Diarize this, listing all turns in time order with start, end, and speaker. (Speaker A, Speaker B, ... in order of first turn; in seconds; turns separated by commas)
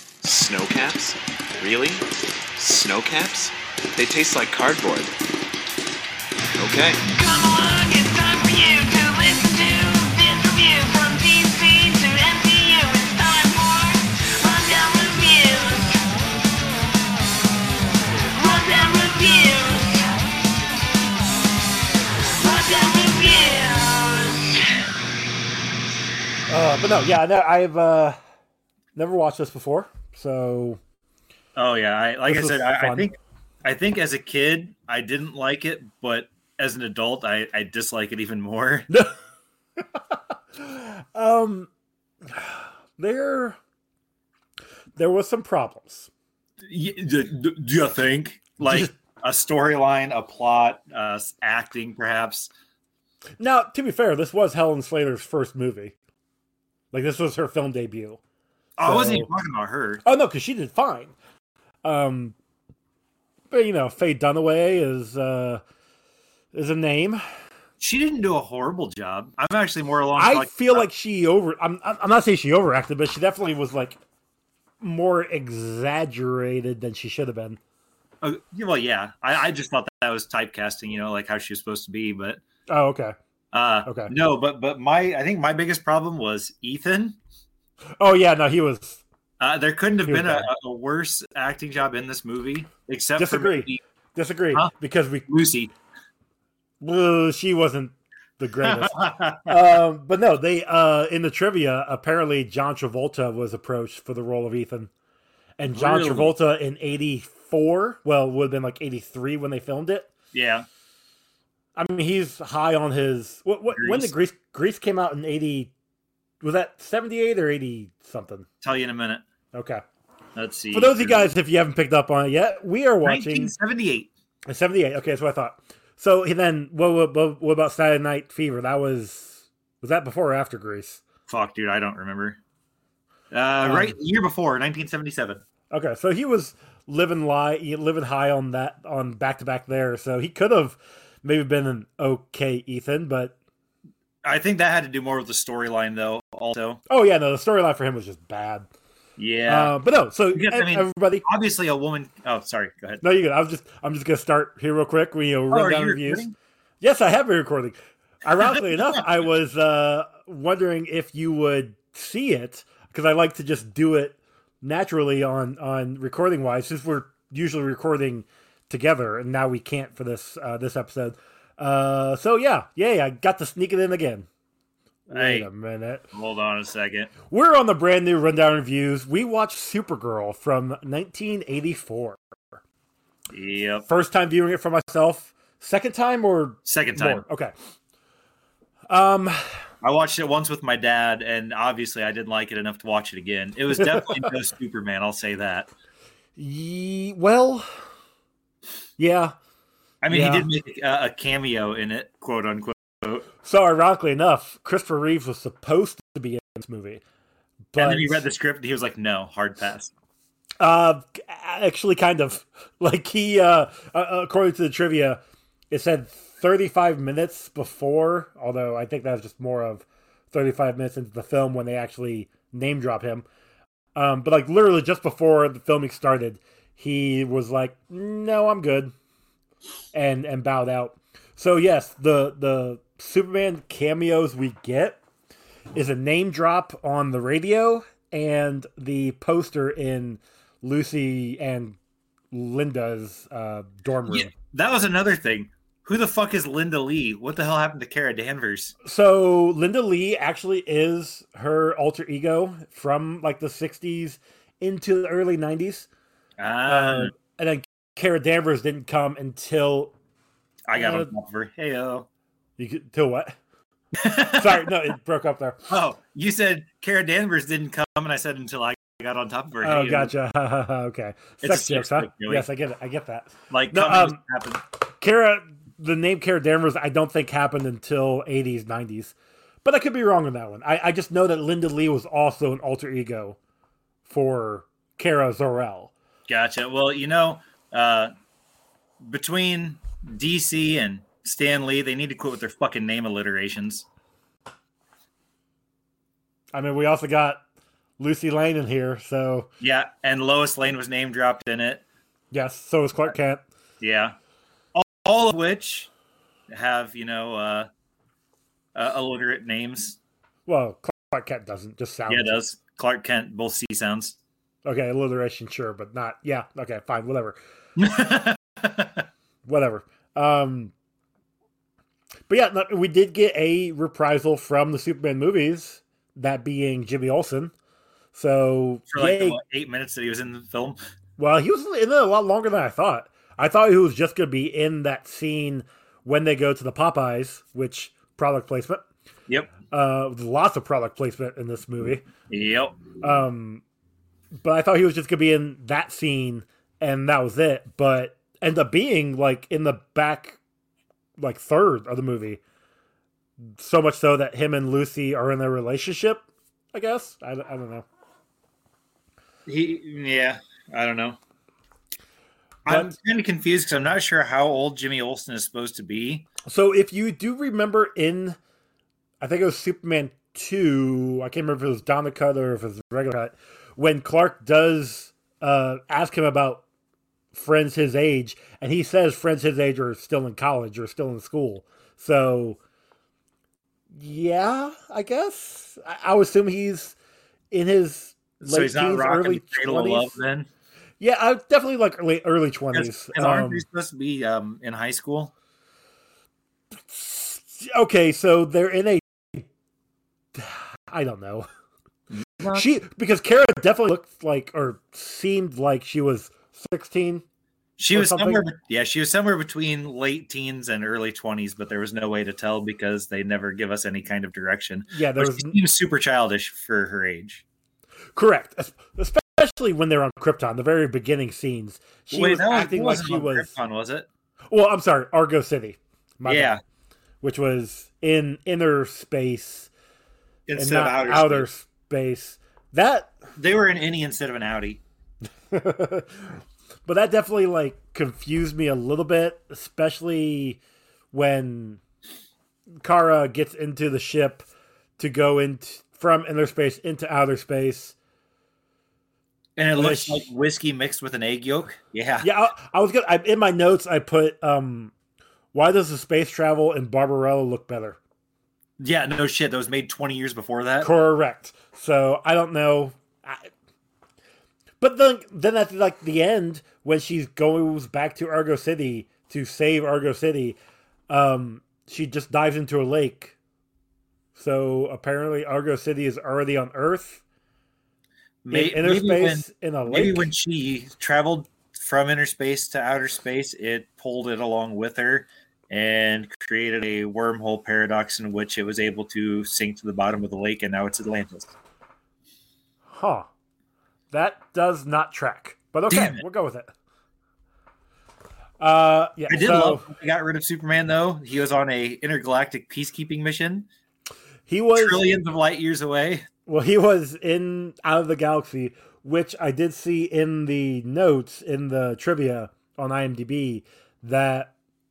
Speaker A: 0.2-5.1, Speaker A: 6.5-7.0, Speaker B: 7.1-16.0, Speaker B: 18.3-20.1, Speaker B: 22.2-24.6, Speaker C: 26.5-28.2, Speaker C: 28.9-30.8, Speaker D: 31.6-38.9, Speaker C: 32.3-33.1, Speaker C: 39.9-41.7, Speaker C: 42.3-43.6, Speaker C: 45.0-46.1, Speaker D: 46.6-52.5, Speaker C: 48.6-48.9, Speaker C: 53.4-55.9, Speaker C: 56.9-58.2, Speaker D: 58.8-60.0, Speaker C: 58.8-59.3, Speaker C: 60.0-61.1, Speaker C: 61.8-62.3, Speaker C: 63.5-65.6, Speaker C: 66.5-67.2, Speaker D: 67.8-70.8, Speaker C: 70.2-74.0, Speaker C: 74.8-77.6, Speaker D: 78.2-82.4, Speaker C: 82.7-83.1, Speaker D: 83.5-87.2, Speaker C: 83.8-84.1, Speaker C: 88.0-89.0, Speaker D: 89.4-93.8, Speaker C: 90.1-90.5, Speaker C: 93.2-95.3, Speaker D: 95.3-95.7, Speaker C: 96.8-104.9, Speaker D: 98.6-99.5, Speaker C: 105.6-110.1, Speaker D: 105.7-106.3, Speaker D: 110.3-110.7, Speaker C: 111.8-115.7, Speaker D: 113.7-114.1, Speaker C: 116.4-118.5, Speaker D: 118.6-119.2, Speaker C: 119.5-119.8, Speaker D: 120.3-121.3, Speaker C: 120.7-123.5, Speaker D: 123.0-124.1, Speaker C: 124.5-131.0, Speaker D: 131.3-132.4, Speaker D: 133.3-135.4, Speaker C: 133.6-133.9, Speaker C: 135.7-143.3, Speaker D: 144.2-146.8, Speaker C: 146.9-148.7, Speaker D: 149.2-149.7, Speaker C: 149.5-151.2, Speaker D: 150.3-153.0, Speaker C: 153.0-156.2, Speaker D: 155.5-156.3, Speaker C: 156.8-174.3, Speaker D: 175.1-175.5, Speaker C: 175.1-176.0, Speaker D: 176.1-177.1, Speaker C: 177.3-182.2, Speaker D: 183.3-183.8, Speaker C: 183.8-187.5, Speaker D: 186.7-187.2, Speaker C: 188.9-189.5, Speaker D: 189.8-195.7, Speaker C: 193.8-194.3, Speaker C: 196.3-197.7, Speaker C: 199.0-199.3, Speaker D: 200.0-203.2, Speaker C: 200.1-200.5, Speaker C: 203.4-207.0, Speaker C: 207.7-208.2, Speaker D: 207.8-209.9, Speaker C: 210.6-215.2, Speaker C: 215.7-223.2, Speaker C: 223.9-228.9, Speaker C: 229.9-235.0, Speaker C: 235.7-241.8, Speaker C: 242.3-244.3, Speaker D: 244.1-248.7, Speaker C: 248.8-255.9, Speaker D: 256.4-257.1, Speaker C: 256.7-259.9, Speaker D: 260.7-262.1, Speaker C: 260.8-261.1, Speaker C: 262.6-263.4, Speaker D: 264.0-264.6, Speaker C: 264.2-265.7, Speaker D: 265.7-270.1, Speaker C: 269.6-274.2, Speaker D: 271.4-272.5, Speaker D: 273.5-274.6, Speaker C: 275.0-283.4, Speaker C: 284.1-285.9, Speaker D: 286.3-288.1, Speaker D: 289.0-293.9, Speaker C: 296.5-297.4, Speaker C: 298.0-299.5, Speaker D: 299.6-301.8, Speaker C: 302.3-303.4, Speaker D: 303.8-304.2, Speaker D: 304.7-305.9, Speaker D: 306.5-307.7, Speaker D: 308.7-310.0, Speaker C: 310.5-312.4, Speaker D: 312.1-314.1, Speaker C: 314.6-317.4, Speaker D: 317.8-319.1, Speaker C: 319.4-320.7, Speaker C: 322.3-327.5, Speaker C: 328.1-329.4, Speaker D: 328.9-330.8, Speaker C: 331.2-338.8, Speaker D: 339.3-339.5, Speaker C: 339.7-342.0, Speaker D: 342.3-342.8, Speaker C: 343.0-343.6, Speaker C: 344.4-350.4, Speaker C: 351.2-352.4, Speaker C: 353.6-357.9, Speaker D: 359.4-361.2, Speaker D: 362.6-366.2, Speaker C: 362.6-362.9, Speaker C: 366.5-368.4, Speaker C: 369.2-376.6, Speaker C: 377.3-382.6, Speaker C: 383.9-386.9, Speaker C: 387.5-390.1, Speaker D: 388.4-390.5, Speaker C: 391.0-393.6, Speaker D: 392.7-395.3, Speaker C: 396.9-399.5, Speaker C: 400.3-401.5, Speaker D: 402.1-402.6, Speaker C: 402.5-407.2, Speaker D: 407.8-417.4, Speaker C: 407.9-408.4, Speaker C: 414.9-415.5, Speaker C: 418.1-423.5, Speaker D: 422.1-424.1, Speaker C: 424.5-426.6, Speaker D: 426.2-426.6, Speaker C: 427.2-429.7, Speaker D: 430.5-431.5, Speaker C: 430.6-433.1, Speaker D: 433.4-434.8, Speaker C: 435.5-440.6, Speaker C: 441.1-441.8, Speaker C: 442.8-444.4, Speaker C: 445.0-447.9, Speaker D: 449.6-452.3, Speaker C: 449.8-450.2, Speaker C: 452.2-454.9, Speaker C: 455.5-458.0, Speaker D: 458.8-460.9, Speaker C: 460.8-463.5, Speaker C: 464.8-470.6, Speaker C: 471.1-473.3, Speaker C: 474.4-477.2, Speaker D: 478.4-491.5, Speaker C: 478.5-480.3, Speaker C: 492.9-493.3, Speaker C: 494.1-496.7, Speaker D: 495.9-496.2, Speaker C: 498.6-499.8, Speaker D: 499.3-503.7, Speaker C: 504.5-505.0, Speaker D: 504.8-506.2, Speaker C: 506.4-514.5